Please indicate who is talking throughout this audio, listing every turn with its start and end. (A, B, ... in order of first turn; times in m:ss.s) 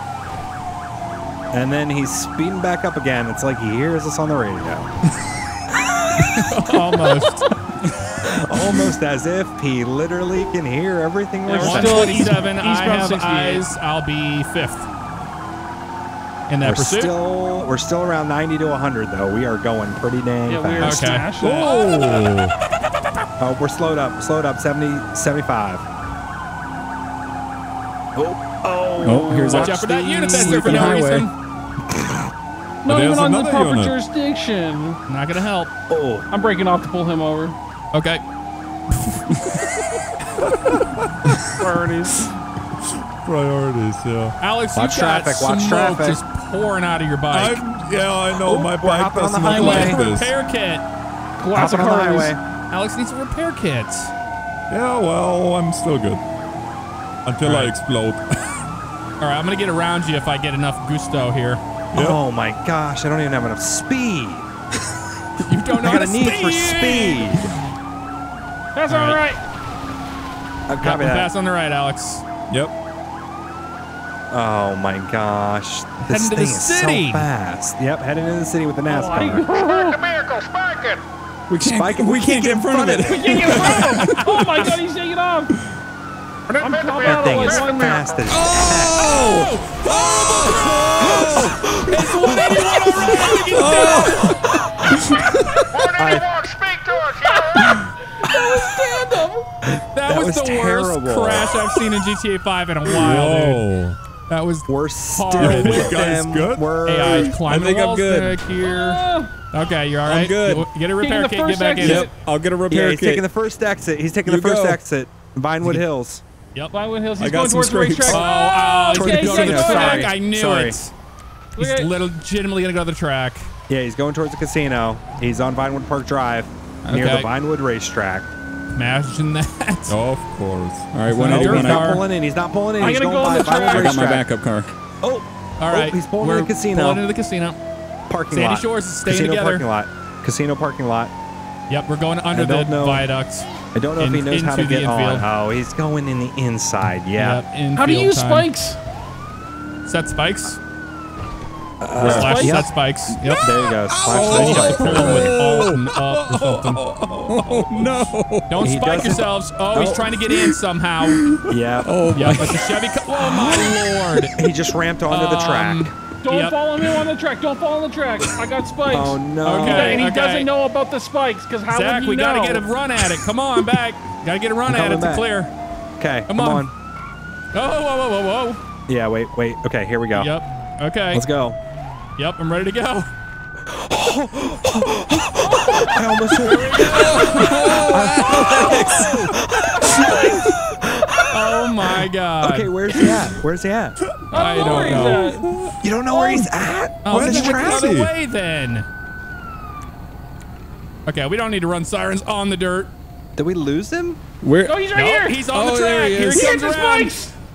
0:01.5-0:04.9 A
0:06.2-0:07.4 B
0:08.2-0:12.4 A
0:11.5-0:13.7 C
0:11.5-0:14.9 B
0:16.5-0:17.1 B
0:16.6-0:21.2 A
0:20.4-0:22.3 C
0:20.8-0:21.3 B
0:21.4-0:22.5 D
0:23.4-0:25.9 A
0:28.2-0:31.0 A
0:29.0-0:31.3 E
0:29.4-0:31.3 B
0:32.8-0:35.0 C
0:32.8-0:33.9 D
0:35.1-0:35.7 B
0:35.9-0:36.3 A
0:36.3-0:37.6 C
0:37.9-0:38.2 B
0:38.9-0:39.2 B
0:40.4-0:41.6 D
0:41.6-0:42.3 C
0:42.8-0:44.3 D
0:44.4-0:47.6 B
0:44.7-0:46.2 A
0:47.3-0:50.3 D
0:48.4-0:50.0 A
0:49.5-0:50.8 B
0:51.4-0:52.3 C
0:51.5-0:52.4 A
0:52.7-0:54.1 B
0:54.7-0:56.2 D
0:57.2-0:58.6 D
0:57.4-0:57.7 B
0:59.2-1:01.6 B
1:01.9-1:04.5 A
1:01.9-1:02.2 D
1:05.4-1:07.4 B
1:05.7-1:07.5 A
1:08.8-1:09.4 C
1:08.9-1:09.2 B
1:10.7-1:11.3 A
1:10.8-1:12.2 B
1:14.3-1:19.4 A
1:16.1-1:17.3 B
1:18.9-1:20.0 C
1:19.5-1:21.0 F
1:21.5-1:24.2 E
1:21.6-1:24.1 A
1:23.1-1:25.5 C
1:26.5-1:28.1 F
1:26.6-1:28.3 C
1:27.0-1:29.1 A
1:28.3-1:31.7 E
1:29.0-1:34.4 B
1:31.1-1:33.0 A
1:33.4-1:34.5 E
1:34.5-1:34.9 A
1:35.0-1:35.3 E
1:35.7-1:37.9 F
1:35.9-1:36.3 A
1:37.2-1:39.5 C
1:39.8-1:41.6 A
1:39.9-1:43.6 B
1:42.9-1:44.0 D
1:44.3-1:46.0 B
1:44.7-1:47.4 A
1:45.4-1:46.7 D
1:46.8-1:52.1 B
1:47.4-1:48.4 E
1:48.6-1:49.3 C
1:50.0-1:50.7 E
1:51.0-1:52.1 C
1:51.8-1:53.2 E
1:52.7-1:56.2 A
1:54.3-1:54.8 E
1:56.7-2:00.1 C
1:57.2-1:58.3 E
1:58.1-2:00.9 B
1:58.9-2:00.8 A
2:01.6-2:01.9 C
2:01.6-2:03.5 B
2:03.7-2:08.3 A
2:06.8-2:07.3 B
2:08.7-2:10.0 B
2:09.9-2:10.9 D
2:10.9-2:12.0 E
2:11.0-2:12.0 B
2:11.2-2:14.3 A
2:12.8-2:14.0 C
2:13.5-2:14.7 E
2:15.0-2:17.0 A
2:15.6-2:17.6 B
2:18.1-2:21.1 A
2:18.3-2:19.6 B
2:21.7-2:25.3 B
2:22.3-2:23.1 A
2:23.7-2:27.4 A
2:27.2-2:28.5 B
2:27.7-2:28.8 C
2:29.8-2:30.6 B
2:31.8-2:35.3 A
2:32.0-2:33.5 B
2:32.0-2:32.6 C
2:33.9-2:36.0 E
2:34.2-2:36.8 B
2:36.2-2:38.1 D
2:37.0-2:38.8 E
2:38.5-2:41.2 B
2:38.6-2:40.1 A
2:41.0-2:42.6 E
2:41.5-2:42.0 A
2:42.1-2:44.3 B
2:43.3-2:43.7 E
2:44.4-2:45.9 A
2:45.1-2:46.6 B
2:46.2-2:52.7 C
2:48.8-2:50.0 A
2:49.4-2:50.5 B
2:51.7-2:55.5 B
2:54.7-2:55.3 A
2:56.0-2:56.7 A
2:56.3-2:56.6 B
2:57.5-2:58.6 B
2:58.9-3:00.3 A
3:00.1-3:01.2 B
3:01.1-3:01.6 A
3:02.2-3:03.1 B
3:03.7-3:14.0 A
3:06.4-3:07.8 B
3:06.8-3:09.3 E
3:10.0-3:10.3 C
3:11.3-3:13.0 B
3:14.0-3:15.7 D
3:14.3-3:15.4 C
3:14.3-3:15.5 B
3:15.8-3:18.0 A
3:17.0-3:18.8 B
3:17.1-3:18.1 D
3:21.0-3:22.9 B
3:23.4-3:24.2 A
3:24.4-3:24.8 E
3:24.6-3:25.5 C
3:24.9-3:27.1 B
3:25.5-3:26.5 E
3:26.2-3:27.3 C